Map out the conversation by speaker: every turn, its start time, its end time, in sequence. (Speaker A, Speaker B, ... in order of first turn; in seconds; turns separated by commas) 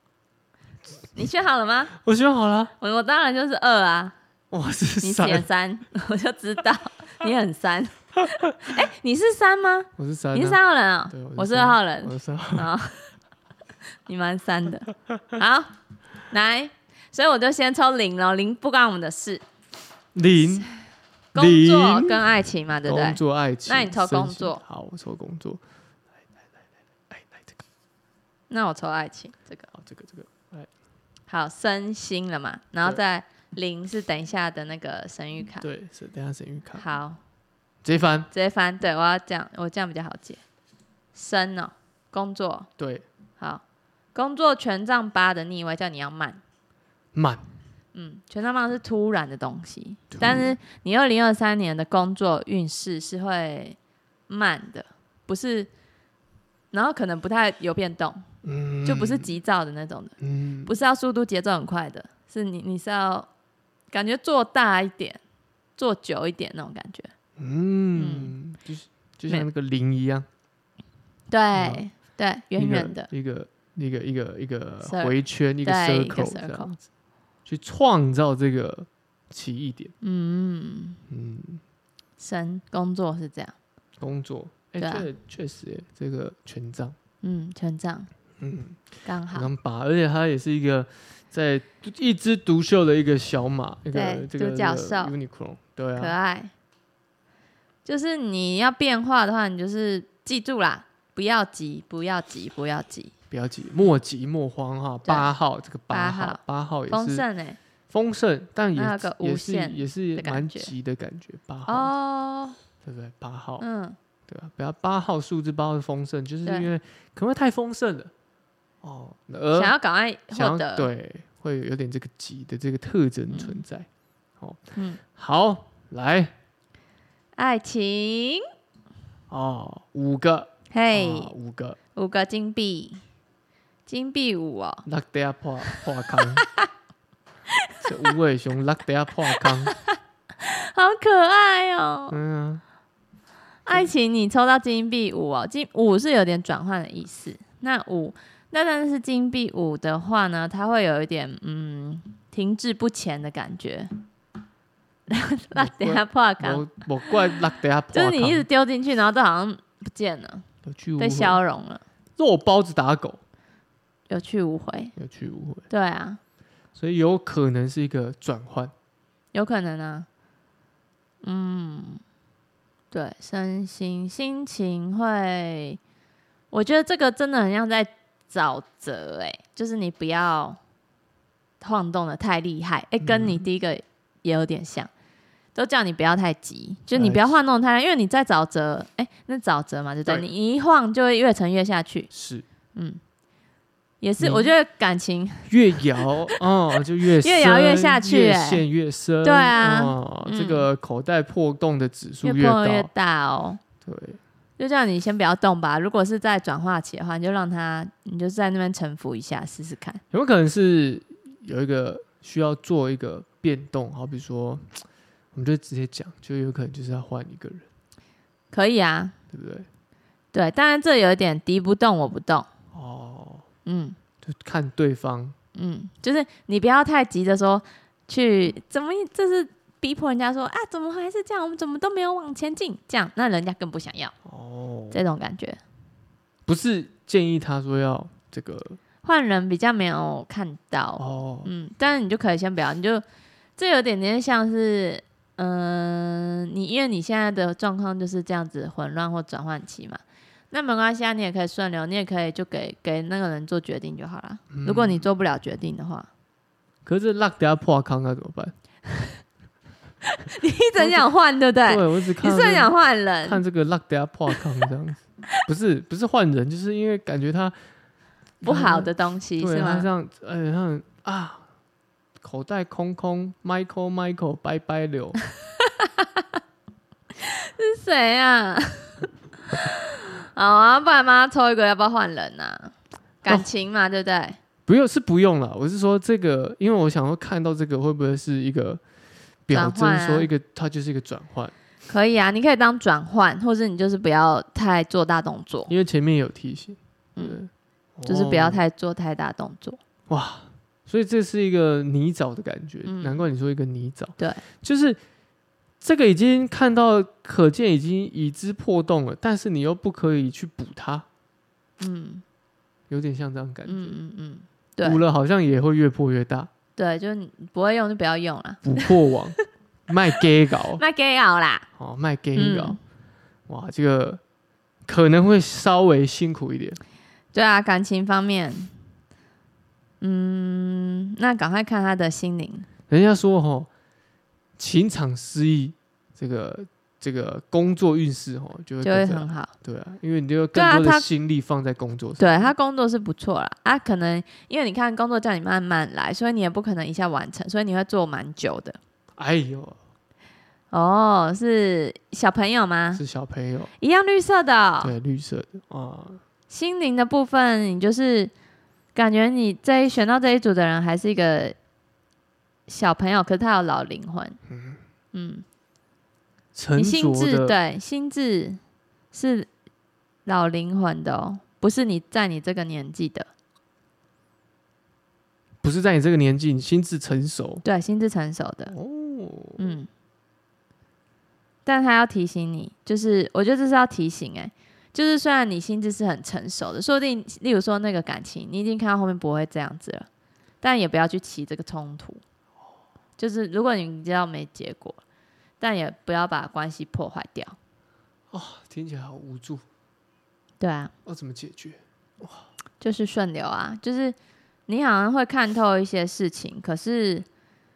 Speaker A: 1.1-1.9, Speaker B: 2.0-2.7, Speaker A: 2.8-4.2, Speaker B: 4.5-5.5, Speaker A: 5.0-13.1, Speaker B: 10.0-12.7, Speaker A: 14.1-15.7, Speaker A: 16.3-19.4, Speaker B: 20.1-20.7, Speaker A: 20.4-20.7, Speaker A: 21.3-24.6, Speaker B: 21.4-22.2, Speaker B: 22.9-25.6, Speaker B: 27.1-27.6, Speaker A: 28.5-29.7, Speaker B: 29.7-30.7, Speaker A: 31.3-35.6, Speaker B: 35.6-36.9, Speaker A: 36.8-37.2, Speaker B: 37.8-38.3, Speaker A: 38.3-40.4, Speaker A: 41.1-42.7, Speaker B: 42.8-43.0, Speaker A: 44.1-46.4, Speaker B: 47.1-47.4, Speaker A: 47.9-53.8, Speaker B: 50.1-50.6, Speaker A: 54.3-55.7, Speaker A: 56.7-58.3, Speaker B: 58.4-59.3, Speaker A: 58.9-63.3, Speaker B: 60.2-60.7, Speaker A: 63.9-65.2, Speaker A: 65.8-67.1, Speaker B: 67.4-70.3, Speaker A: 68.0-68.3, Speaker A: 71.3-73.1, Speaker B: 71.5-71.8, Speaker B: 72.6-76.8, Speaker A: 74.8-76.7, Speaker B: 77.5-79.9, Speaker A: 80.0-81.0, Speaker B: 81.1-81.6, Speaker A: 82.2-83.5, Speaker B: 84.0-87.0, Speaker A: 84.8-85.1, Speaker A: 87.2-88.1, Speaker B: 88.4-96.2, Speaker A: 89.0-89.5, Speaker A: 93.9-95.1, Speaker A: 96.0-96.5, Speaker A: 97.8-103.1, Speaker B: 103.3-107.2, Speaker A: 105.9-107.6, Speaker B: 107.9-111.9, Speaker A: 108.8-110.7, Speaker A: 111.7-112.6, Speaker B: 112.8-113.7, Speaker A: 113.6-114.0, Speaker B: 114.3-118.1, Speaker B: 118.8-119.8, Speaker A: 119.5-120.9, Speaker B: 120.3-123.9, Speaker A: 123.3-123.6, Speaker B: 125.1-126.3, Speaker A: 127.4-128.4, Speaker B: 129.3-131.8, Speaker A: 130.7-131.3, Speaker A: 131.9-133.0, Speaker A: 133.9-134.8, Speaker B: 134.8-136.4, Speaker A: 135.8-136.7, Speaker A: 137.5-138.1, Speaker B: 137.8-139.7, Speaker A: 139.4-142.2, Speaker B: 142.1-142.6, Speaker A: 143.7-153.9, Speaker A: 155.1-157.2, Speaker B: 155.6-158.5, Speaker A: 157.9-160.5, Speaker B: 160.7-161.4, Speaker A: 161.0-161.8, Speaker B: 162.2-163.2, Speaker A: 164.1-164.9, Speaker B: 165.0-165.7, Speaker A: 165.7-166.2, Speaker B: 166.8-168.7, Speaker A: 169.3-170.1, Speaker A: 171.2-172.0, Speaker A: 172.9-175.8, Speaker A: 176.5-180.6, Speaker A: 181.6-184.9, Speaker B: 183.0-183.5, Speaker A: 185.6-192.1, Speaker B: 186.9-187.3, Speaker B: 192.1-192.4, Speaker A: 192.8-193.0, Speaker A: 194.0-195.5, Speaker B: 194.2-194.5, Speaker B: 195.5-202.9, Speaker A: 197.0-198.6, Speaker A: 199.2-200.7, Speaker A: 202.2-203.6, Speaker B: 203.8-204.2, Speaker A: 204.6-210.0, Speaker B: 210.1-214.8, Speaker B: 215.3-217.7, Speaker A: 218.5-219.2, Speaker B: 219.3-219.7, Speaker A: 220.3-222.5, Speaker B: 222.7-223.5, Speaker A: 223.7-224.0, Speaker B: 224.2-225.3, Speaker A: 225.6-234.1, Speaker B: 234.2-235.0, Speaker A: 234.9-235.6, Speaker B: 236.5-238.8, Speaker A: 239.0-243.0, Speaker B: 241.0-241.5, Speaker A: 243.6-256.1, Speaker B: 254.5-255.1, Speaker B: 256.9-258.5, Speaker A: 258.9-259.1, Speaker A: 260.1-263.4, Speaker B: 260.8-261.1, Speaker B: 261.6-267.6, Speaker B: 268.4-271.4, Speaker A: 268.4-269.9, Speaker B: 272.2-275.2, Speaker A: 275.5-276.3, Speaker A: 277.2-282.7, Speaker A: 283.2-284.4, Speaker B: 284.7-288.8, Speaker B: 289.5-291.5, Speaker A: 289.5-290.3, Speaker A: 291.9-295.7, Speaker B: 295.7-298.6, Speaker A: 298.1-299.8, Speaker B: 300.1-305.0, Speaker A: 302.9-303.2, Speaker B: 305.8-311.1, Speaker A: 311.8-312.2, Speaker B: 312.9-314.0, Speaker A: 313.7-315.0, Speaker B: 314.8-316.5, Speaker A: 316.8-318.9, Speaker B: 318.6-320.8, Speaker A: 320.8-321.7, Speaker B: 321.8-322.8, Speaker A: 322.4-322.8, Speaker B: 323.5-324.2, Speaker B: 324.9-326.8, Speaker A: 327.3-328.7, Speaker A: 330.0-332.7, Speaker B: 332.9-333.7, Speaker B: 334.6-342.5, Speaker A: 338.8-339.5, Speaker A: 340.5-341.1, Speaker A: 342.2-348.8, Speaker B: 349.2-349.8, Speaker A: 350.7-353.0, Speaker B: 352.9-353.7, Speaker A: 353.8-354.9, Speaker B: 354.8-356.2, Speaker A: 356.5-358.3, Speaker A: 358.9-361.6, Speaker A: 362.7-364.4, Speaker B: 364.5-364.8, Speaker A: 365.1-365.4, Speaker B: 366.6-367.6, Speaker A: 366.8-368.6, Speaker A: 369.1-369.5, Speaker A: 370.2-373.3, Speaker B: 375.6-377.6, Speaker A: 377.6-378.7, Speaker B: 378.7-379.7, Speaker A: 379.6-379.9, Speaker A: 381.7-390.1, Speaker A: 390.6-392.2, Speaker A: 393.2-395.0, Speaker A: 395.6-397.6, Speaker B: 398.3-399.6, Speaker A: 400.6-400.9, Speaker B: 401.1-402.4, Speaker A: 402.8-404.2, Speaker A: 404.7-407.3